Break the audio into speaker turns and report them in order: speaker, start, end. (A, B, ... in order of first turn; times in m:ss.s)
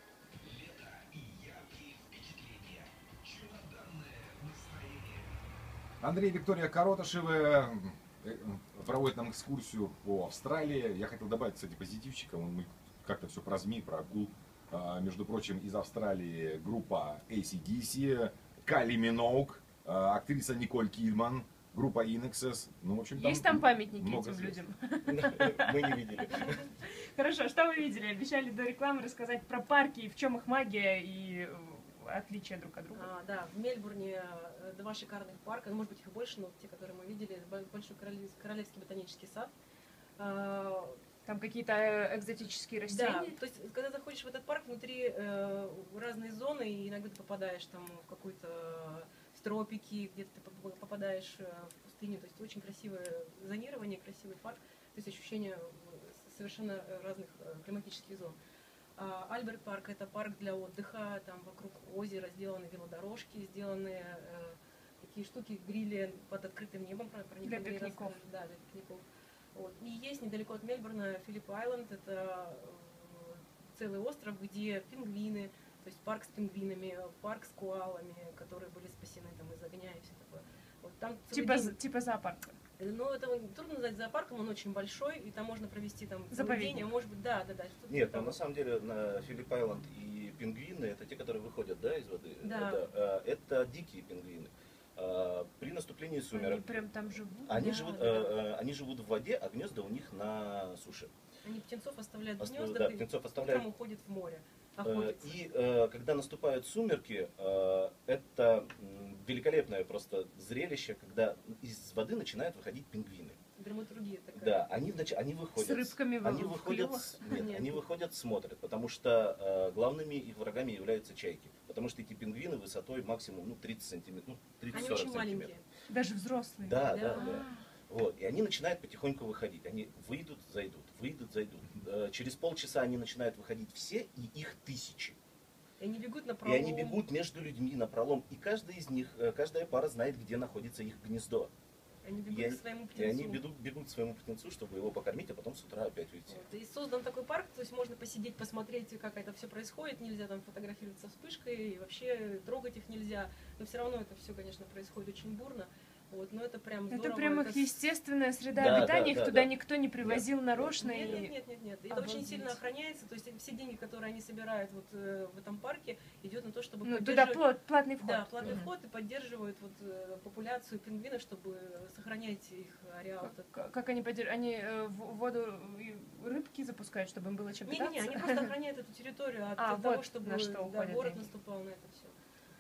0:06.0-0:24.6 A
0:23.2-0:33.1 B
0:25.0-0:26.6 C
0:33.0-0:39.5 D
0:40.2-0:41.0 D
0:41.3-0:43.4 B
0:42.9-0:58.4 D
0:59.0-1:09.0 D
1:07.4-1:08.2 B
1:09.6-1:21.8 D
1:21.3-1:22.6 B
1:22.8-1:28.4 D
1:26.3-1:26.8 B
1:27.9-1:36.8 C
1:32.4-1:32.8 D
1:36.3-1:37.6 B
1:37.4-1:41.1 C
1:37.5-1:38.4 D
1:41.4-1:45.4 D
1:42.4-1:43.7 C
1:44.8-1:53.4 C
1:53.6-1:54.7 D
1:54.4-2:05.6 C
1:55.6-1:57.5 B
1:57.2-1:57.8 D
2:04.7-2:05.6 D
2:05.9-2:07.6 B
2:06.6-2:15.2 C
2:06.8-2:07.3 D
2:15.8-2:17.0 D
2:16.4-2:21.5 C
2:22.0-2:23.4 D
2:22.3-2:26.5 C
2:26.3-2:37.8 D
2:36.9-2:41.4 B
2:38.5-2:40.8 C
2:40.8-2:47.4 D
2:41.9-2:42.6 B
2:46.8-2:48.7 B
2:48.0-2:53.5 D
2:53.2-2:58.5 B
2:57.7-3:02.1 D
2:59.6-3:01.3 B